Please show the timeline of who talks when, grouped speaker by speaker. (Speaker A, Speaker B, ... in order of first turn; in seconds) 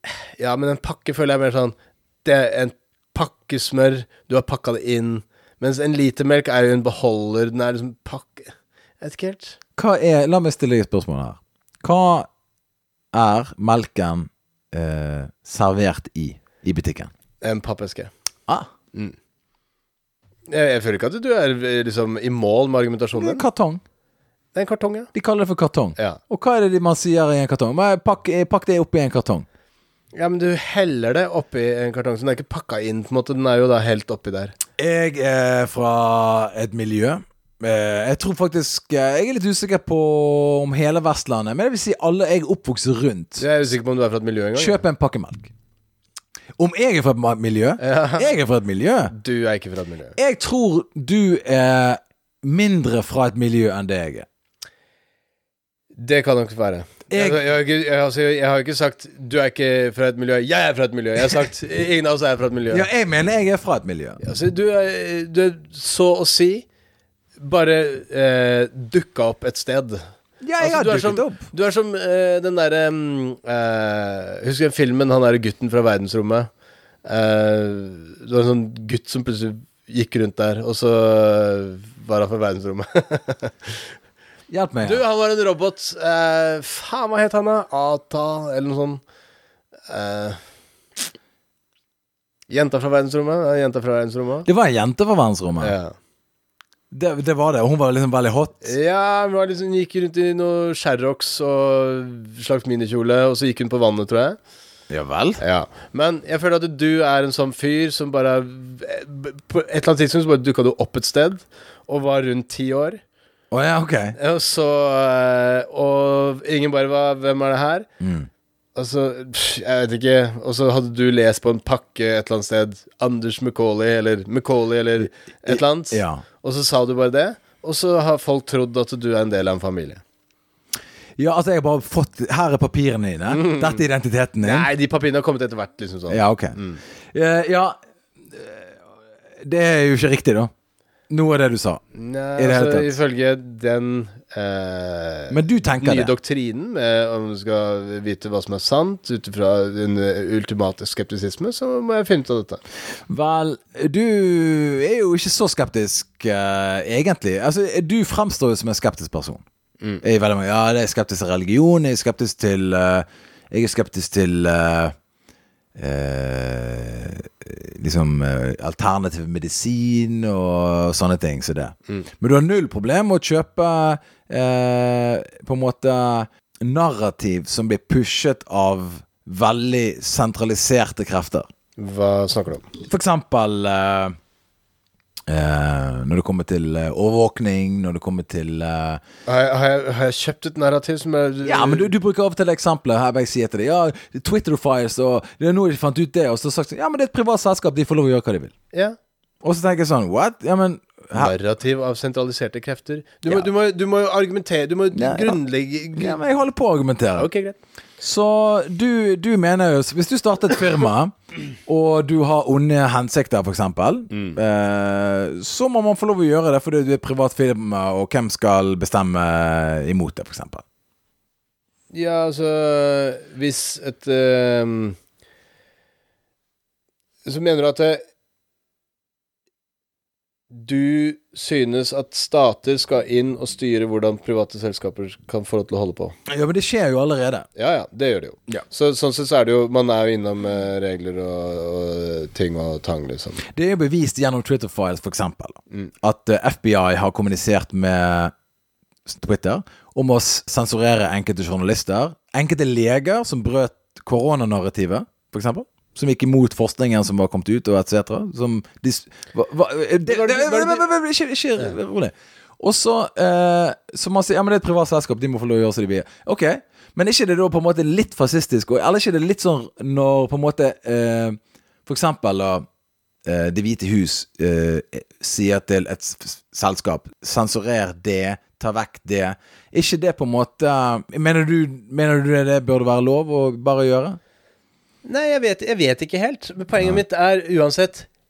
Speaker A: 0.4-9.6, 17.4-18.1, 20.5-23.4, 24.5-25.1, 30.1-34.5, 43.4-44.8, 47.8-48.3, 49.1-50.1, 55.9-62.9, 64.2-66.7, 67.4-70.0, 70.6-76.5, 77.0-83.9, 84.8-89.0, 89.9-90.4, 92.5-94.5, 95.6-95.9, 98.6-104.4, 105.4-113.0, 114.2-117.9, 118.7-130.0, 133.3-133.8, 134.4-136.8, 141.9-152.6, 181.8-182.7, 189.2-191.9, 198.7-199.0, 201.1-206.2, 207.2-207.6, 214.1-214.4, 221.9-225.0, 227.2-228.0, 230.5-236.1, 237.6-243.4, 260.1-260.9, 285.0-288.1
Speaker B: 9.8-12.3, 13.1-17.1, 23.1-23.8, 25.1-29.4, 34.8-43.5, 44.5-45.5, 46.6-49.1, 50.1-54.2, 57.1-57.4, 62.7-64.2, 70.4-71.5, 84.5-85.0, 94.4-95.7, 96.9-98.7, 104.9-105.4, 113.5-114.2, 118.0-118.3, 125.5-126.2, 131.2-134.7, 136.1-136.6, 137.1-137.8, 138.3-138.8, 139.4-140.5, 141.1-141.8, 142.4-143.0, 145.3-146.1, 153.1-159.4, 160.0-164.9, 165.8-181.5, 182.8-184.2, 185.3-189.0, 191.4-198.5, 199.4-201.3, 204.9-205.4, 205.9-207.3, 208.0-211.1, 211.7-220.6, 236.3-237.5, 243.5-248.3, 249.1-272.6, 273.2-284.2